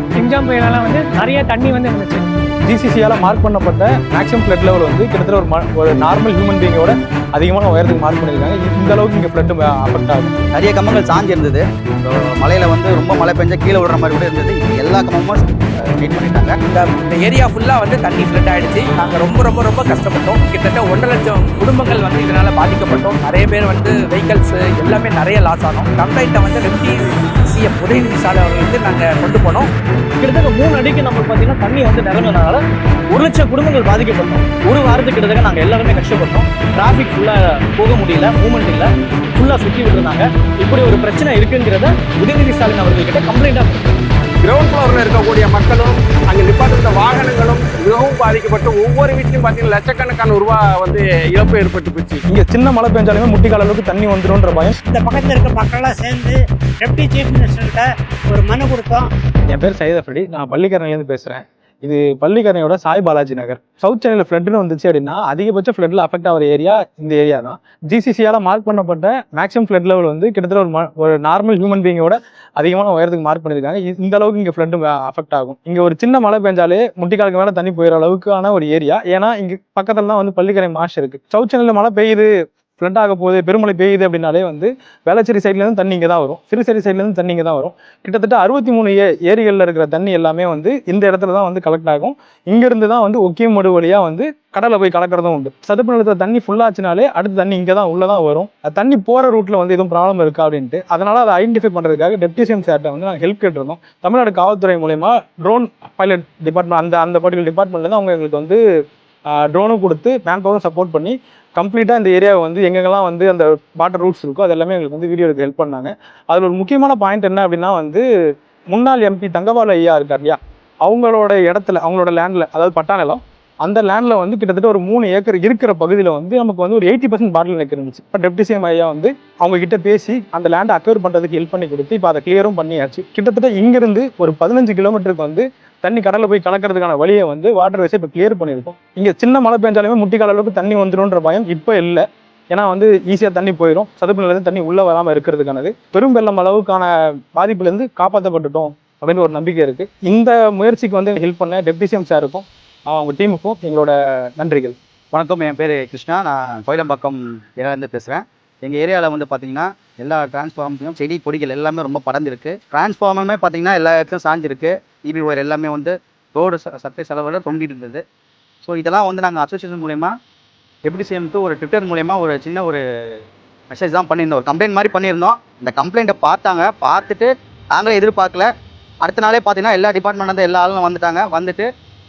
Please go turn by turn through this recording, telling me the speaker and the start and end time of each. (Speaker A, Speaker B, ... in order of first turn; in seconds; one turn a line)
Speaker A: 0.2-2.2
Speaker B: 2.7-10.3
Speaker C: 10.5-16.6
Speaker D: 16.7-29.7
Speaker E: 30.2-43.9
Speaker F: 44.4-52.2
Speaker B: 52.3-54.8
Speaker G: 54.9-59.1
Speaker B: 59.5-108.6
Speaker B: 109.3-118.0
Speaker B: 118.7-154.8
Speaker C: 155.1-168.0
Speaker C: 168.6-170.1
Speaker C: 170.8-172.8
Speaker C: 173.7-178.5
Speaker C: 179.0-181.7